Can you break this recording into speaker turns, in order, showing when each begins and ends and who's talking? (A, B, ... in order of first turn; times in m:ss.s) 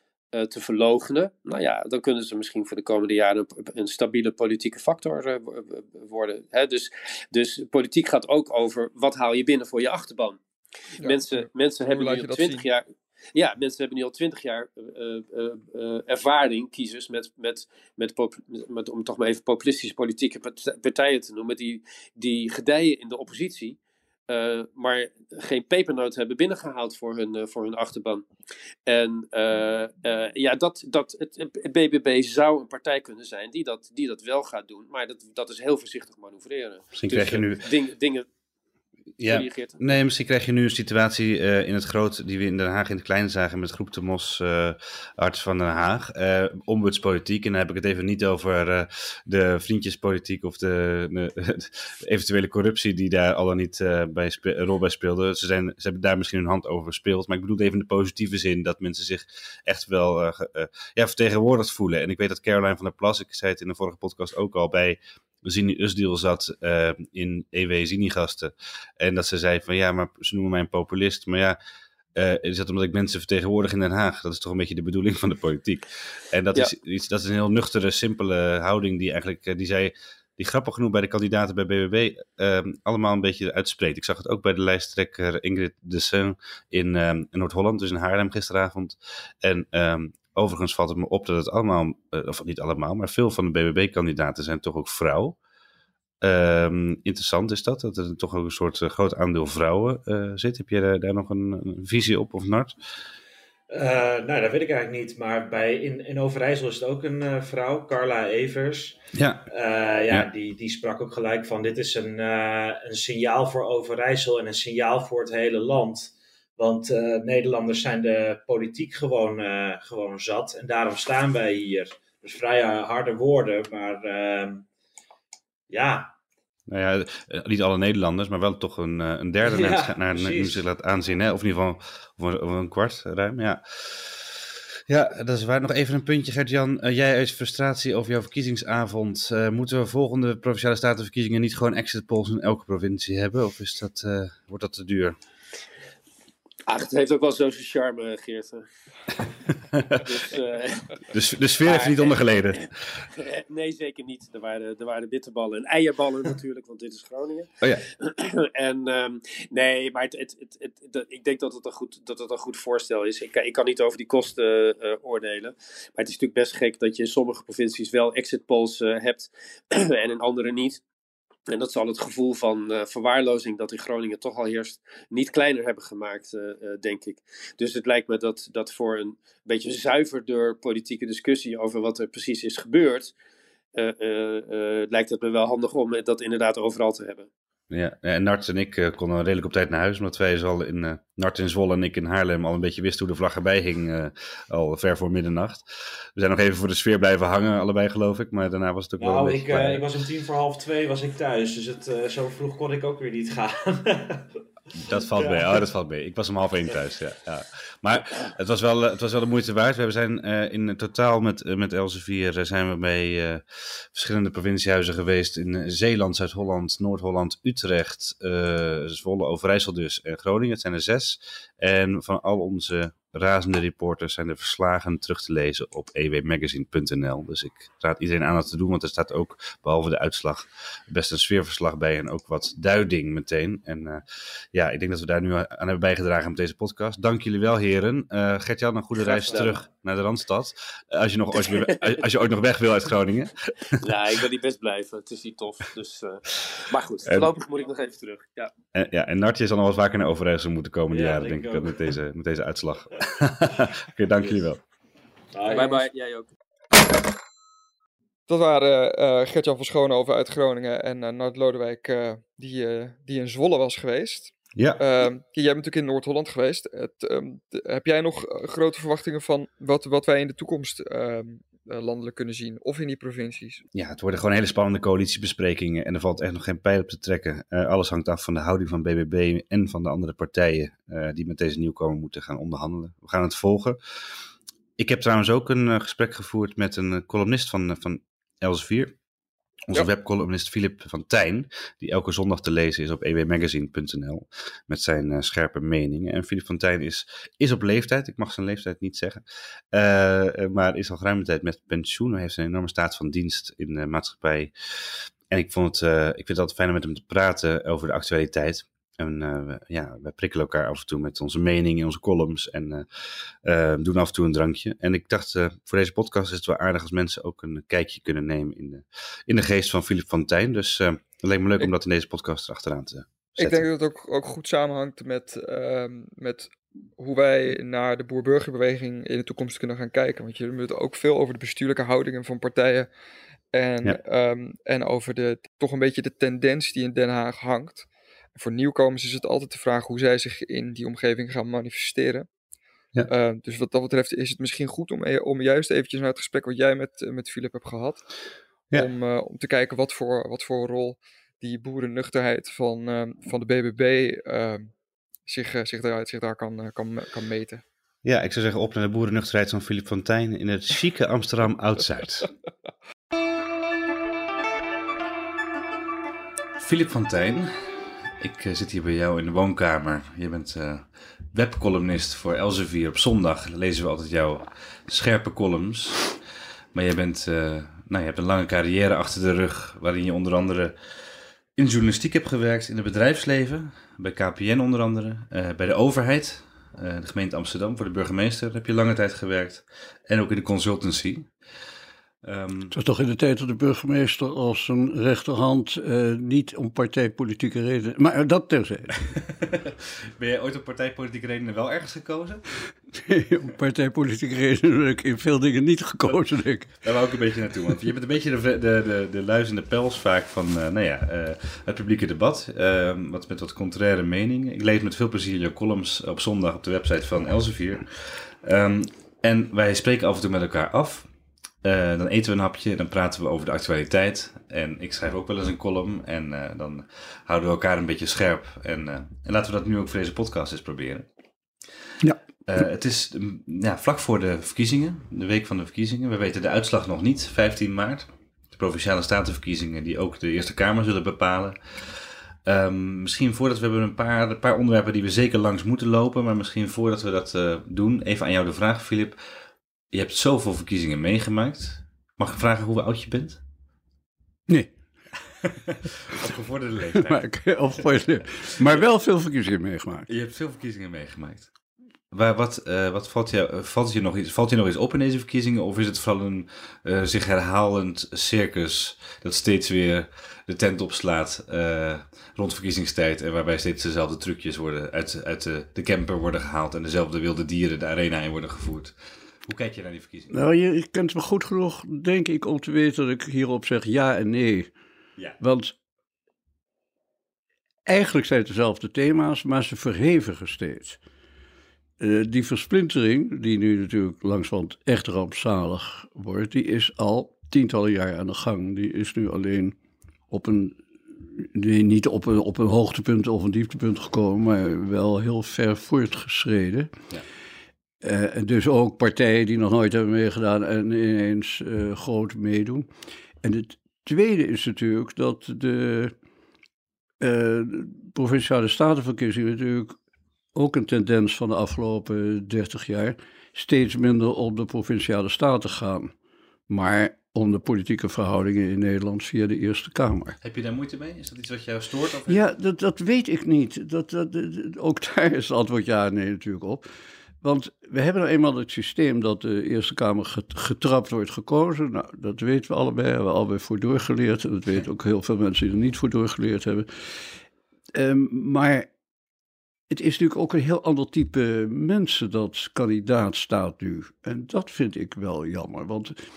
0:00.3-0:10.4 A
0:11.0-0:12.6 B
0:11.0-0:23.8 A
0:24.3-0:28.3 A
0:28.9-0:38.3 A
0:36.9-0:37.6 C
0:39.2-1:11.6 C
0:39.2-0:39.8 A
1:12.2-1:35.4 C
1:36.2-1:42.8 C
1:43.7-2:04.7 D
1:49.2-1:49.5 C
2:05.7-2:06.1 D
2:06.7-2:25.2 C
2:09.4-2:10.6 D
2:26.7-2:28.6 A
2:29.7-2:30.0 C
2:30.0-2:50.8 A
2:31.1-2:32.7 C
2:51.5-3:03.1 A
3:03.8-3:07.3 A
3:07.7-3:19.8 C
3:19.0-3:24.3 D
3:24.8-4:03.9 C
3:24.9-3:25.7 D
3:59.0-3:59.6 A
4:01.4-4:02.0 A
4:03.8-4:08.5 A
4:08.7-4:14.6 C
4:10.9-4:11.9 D
4:15.3-4:15.8 D
4:15.5-4:16.3 A
4:18.3-4:33.6 B
4:24.6-4:24.8 C
4:33.8-4:43.8 C
4:44.8-4:49.0 C
4:49.7-5:23.6 C
5:23.4-5:32.9 B
5:33.5-5:42.3 B
5:43.1-5:48.0 B
5:48.7-5:54.7 B
5:55.3-5:57.6 B
5:58.0-6:02.3 C
6:06.6-6:16.1 C
6:16.7-6:20.8 C
6:21.6-6:31.3 C
6:32.2-6:32.7 C
6:32.7-6:39.1 E
6:39.1-6:42.4 C
6:43.0-6:46.8 E
6:46.8-7:01.1 C
7:01.6-7:11.1 C
7:12.5-7:29.2 C
7:29.9-7:33.4 C
7:34.5-7:34.7 E
7:35.4-7:37.2 C
7:36.9-7:40.1 E
7:40.1-7:41.5 C
7:42.1-8:00.3 C
8:00.3-8:04.7 E
8:05.4-8:05.8 E
8:07.9-8:11.0 E
8:12.0-8:19.8 E
8:20.3-8:26.9 E
8:28.0-8:32.9 E
8:33.4-8:36.1 E
8:37.2-8:40.0 E
8:40.6-8:46.1 E
8:46.7-8:50.4 E
8:50.4-8:52.4 C
8:52.3-8:56.8 E
8:57.4-9:06.9 E
9:08.0-9:08.9 E
9:09.9-9:16.2 E